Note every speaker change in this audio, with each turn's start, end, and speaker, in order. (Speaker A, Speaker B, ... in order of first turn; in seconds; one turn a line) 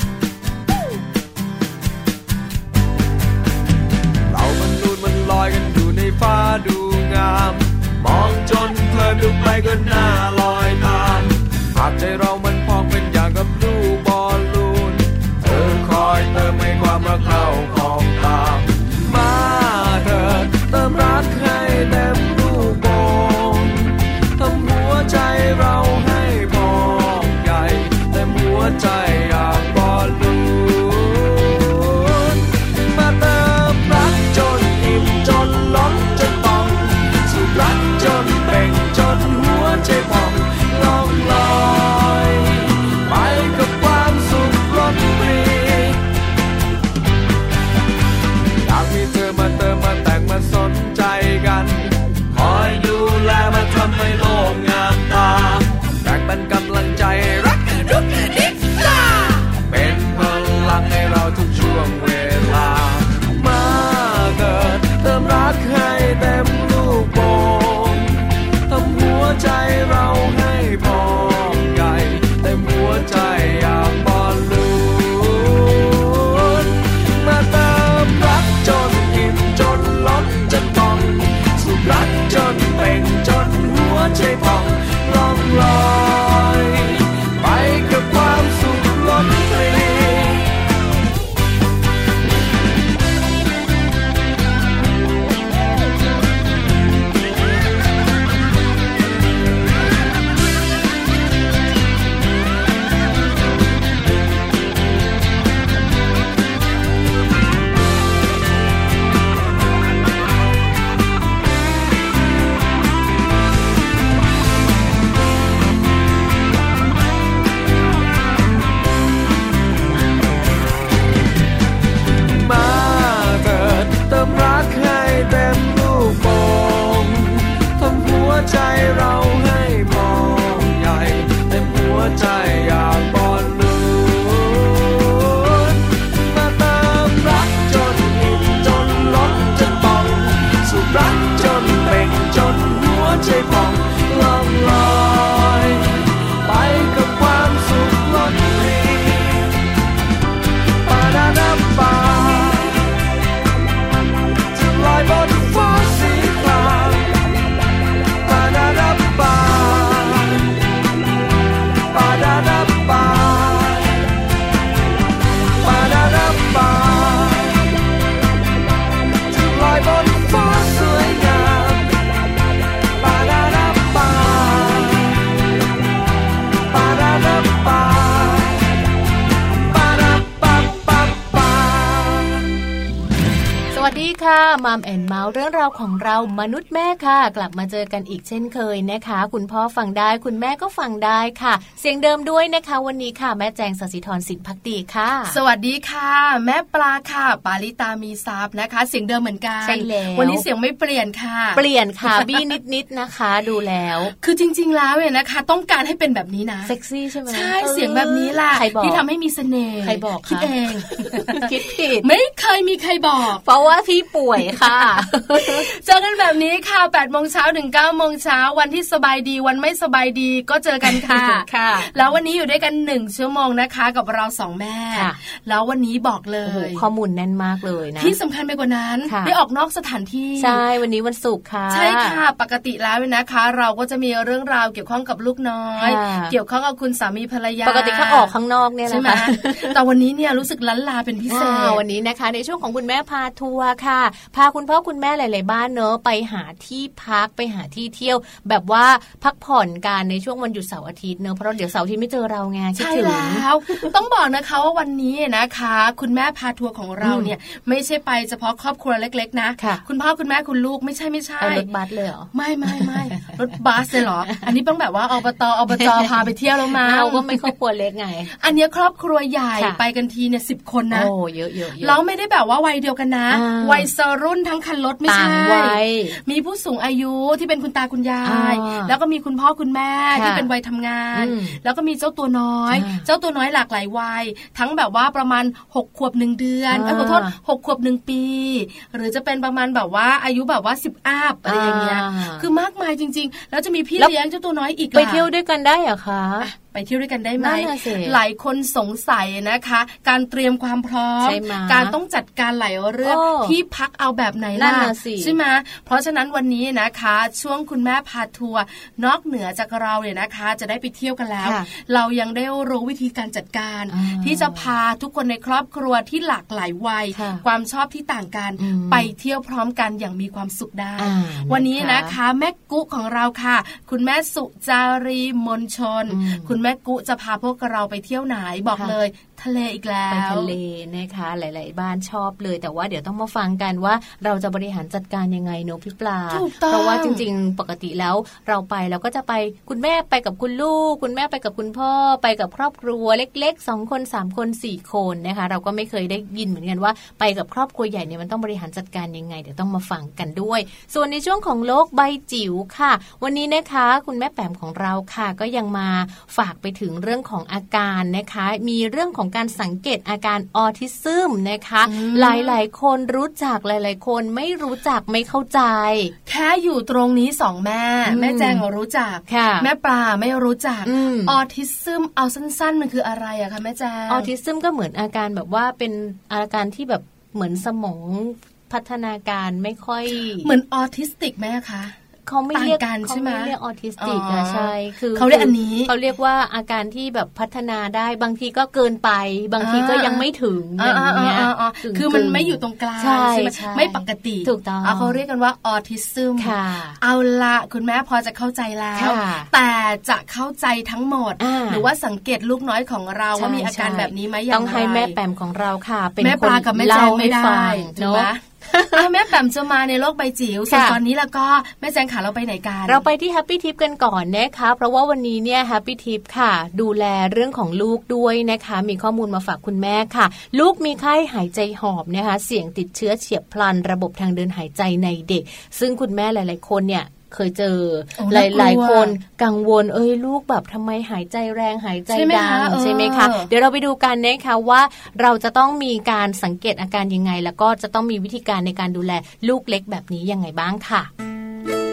Speaker A: 4.3-46.0
Speaker A: 48.6-90.5
Speaker A: 122.3-149.5
Speaker A: 150.8-152.8
Speaker A: 154.5-157.1
Speaker A: 158.2-160.4
Speaker A: 161.9-164.0
Speaker A: 165.6-167.6
Speaker A: 169.3-171.9
Speaker A: 173.0-175.2
Speaker A: 176.7-178.7
Speaker A: 179.7-182.4
Speaker B: 183.7-195.4
Speaker C: 195.3-202.5
Speaker B: 199.6-200.4
Speaker B: 201.5-204.1
Speaker C: 204.2-206.7
Speaker B: 206.7-209.0
Speaker C: 207.3-213.4
Speaker B: 209.8-212.1
Speaker B: 213.4-215.7
Speaker C: 214.4-226.8
Speaker B: 220.8-221.9
Speaker B: 224.9-225.2
Speaker B: 226.4-228.2
Speaker C: 228.0-230.6
Speaker B: 229.1-229.3
Speaker B: 230.4-232.2
Speaker C: 231.7-238.3
Speaker B: 235.8-236.3
Speaker B: 237.6-239.8
Speaker C: 238.8-241.8
Speaker B: 241.3-253.9
Speaker C: 252.8-261.7
Speaker B: 257.0-257.3
Speaker B: 259.6-259.8
Speaker B: 261.4-263.3
Speaker C: 262.3-267.5
Speaker B: 265.8-266.1
Speaker B: 266.7-268.3
Speaker C: 268.4-271.1
Speaker B: 270.9-272.0
Speaker C: 271.8-295.3
Speaker B: 273.3-273.9
Speaker B: 275.1-276.2
Speaker B: 278.2-278.9
Speaker B: 280.1-280.5
Speaker B: 281.1-281.6
Speaker B: 282.7-283.1
Speaker B: 286.7-287.3
Speaker B: 291.4-292.5
Speaker B: 294.9-296.5
Speaker C: 296.4-330.5
Speaker B: 297.4-298.2
Speaker B: 301.2-302.0
Speaker B: 303.0-303.6
Speaker B: 304.5-305.4
Speaker B: 311.4-311.7
Speaker B: 313.9-314.7
Speaker B: 317.1-317.4
Speaker B: 318.6-319.1
Speaker B: 321.0-322.1
Speaker B: 326.1-326.5
Speaker B: 330.1-366.1
Speaker C: 336.3-337.2
Speaker C: 361.8-362.6
Speaker C: 366.3-374.3
Speaker B: 368.1-368.6
Speaker B: 369.3-369.7
Speaker B: 370.8-371.4
Speaker B: 374.1-380.5
Speaker C: 380.4-381.9
Speaker B: 382.2-395.2
Speaker C: 382.5-385.9
Speaker C: 389.6-390.2
Speaker C: 390.8-405.1
Speaker B: 396.4-397.0
Speaker B: 398.9-399.5
Speaker B: 401.4-401.9
Speaker B: 403.3-409.1
Speaker C: 406.2-413.0
Speaker B: 410.7-411.0
Speaker B: 412.9-441.1
Speaker C: 428.1-429.2
Speaker C: 432.1-433.5